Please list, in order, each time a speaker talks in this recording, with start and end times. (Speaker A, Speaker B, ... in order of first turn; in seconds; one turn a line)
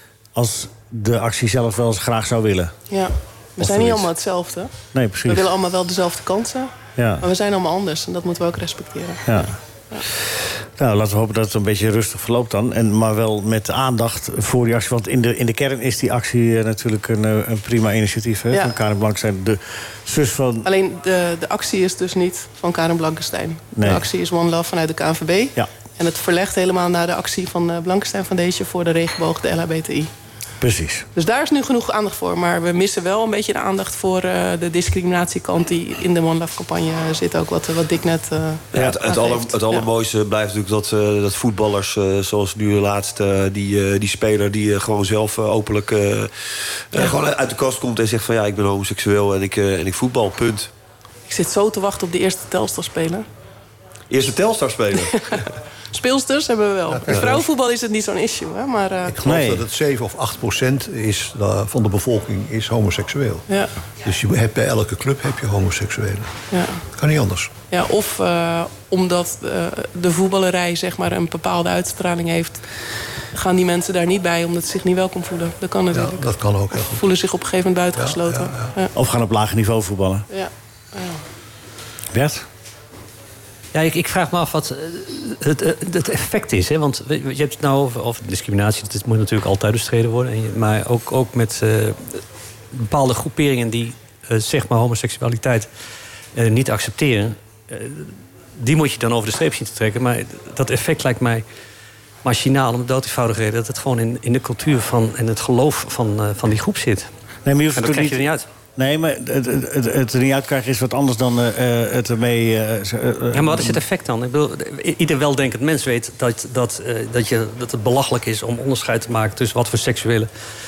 Speaker A: 0.3-2.7
Speaker B: 2.9-4.7
Speaker A: 3.6-4.1
Speaker A: 4.9-5.5
Speaker B: 5.2-9.4
Speaker A: 7.0-7.2
Speaker A: 9.2-9.6
Speaker A: 10.8-20.7
Speaker B: 20.6-30.1
Speaker A: 23.8-24.0
Speaker A: 30.6-31.1
Speaker B: 31.1-39.9
Speaker C: 38.7-46.3
Speaker C: 46.9-50.7
Speaker B: 51.3-53.2
Speaker C: 54.1-55.4
Speaker B: 55.1-55.4
Speaker B: 55.9-59.1
Speaker D: 56.9-57.4
Speaker D: 59.1-63.4
Speaker A: 59.2-59.6
Speaker D: 64.0-66.3
Speaker B: 66.5-66.8
Speaker D: 66.9-67.5
Speaker B: 67.7-72.6
Speaker B: 73.3-76.2
Speaker D: 75.9-77.0
Speaker B: 76.9-78.9
Speaker D: 78.0-78.7
Speaker A: 78.9-80.3
Speaker B: 80.3-81.2
Speaker A: 82.1-82.4
Speaker E: 83.7-92.2
Speaker E: 92.7-95.7
Speaker E: 96.3-101.4
Speaker E: 102.2-107.1
Speaker A: 107.4-108.2
Speaker E: 107.8-108.4
Speaker A: 108.8-113.8
Speaker E: 113.3-120.3